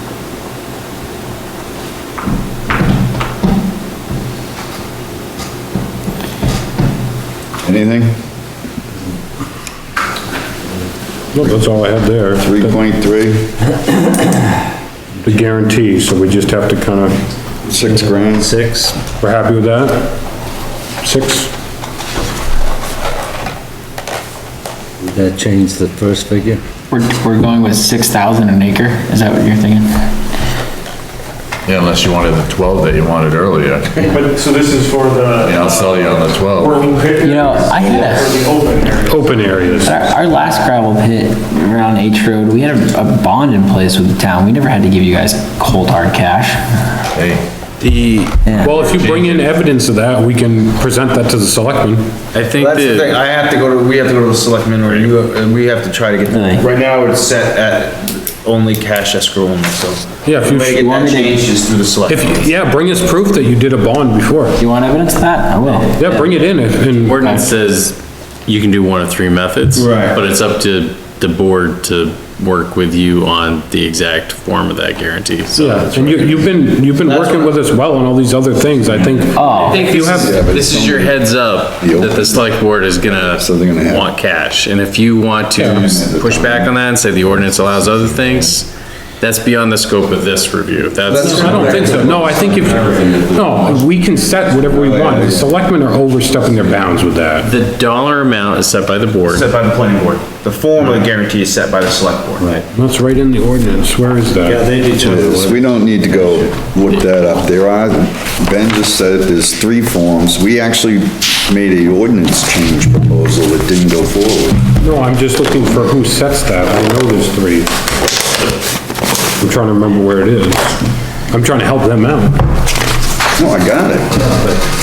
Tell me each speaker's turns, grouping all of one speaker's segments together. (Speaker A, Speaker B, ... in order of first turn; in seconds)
Speaker A: 7.6-8.2, 12.4-13.5, 17.7-18.5, 79.9-82.5, 83.1-84.1, 85.6-86.7, 95.0-95.4, 104.9-114.6, 123.4-124.2
Speaker B: 11.3-12.8, 15.2-17.2, 19.2-20.1, 21.0-21.5, 39.0-40.0, 48.6-52.1, 60.2-60.8, 62.1-64.6, 66.0-67.3, 75.6-80.4, 91.2-97.5, 102.7-104.7, 114.8-117.7, 119.4-122.5
Speaker C: 17.8-19.0, 25.0-26.6, 34.0-34.3, 102.4-102.7, 104.4-106.5, 124.2-124.6
Speaker D: 26.9-29.9, 37.2-38.4, 39.9-46.6, 56.3-56.6, 60.9-61.4, 64.6-66.1, 79.3-79.8
Speaker E: 31.7-34.2, 35.4-37.1, 47.1-47.5, 87.3-88.5, 92.7-93.8
Speaker F: 34.3-35.8, 36.7-40.0
Speaker G: 47.8-49.4, 52.3-53.2, 54.9-55.1, 67.0-76.4, 79.6-92.2, 97.4-99.5
Speaker H: 52.5-62.5, 69.8-70.2, 77.1-77.5, 91.1-93.4, 94.7-95.3, 99.2-102.5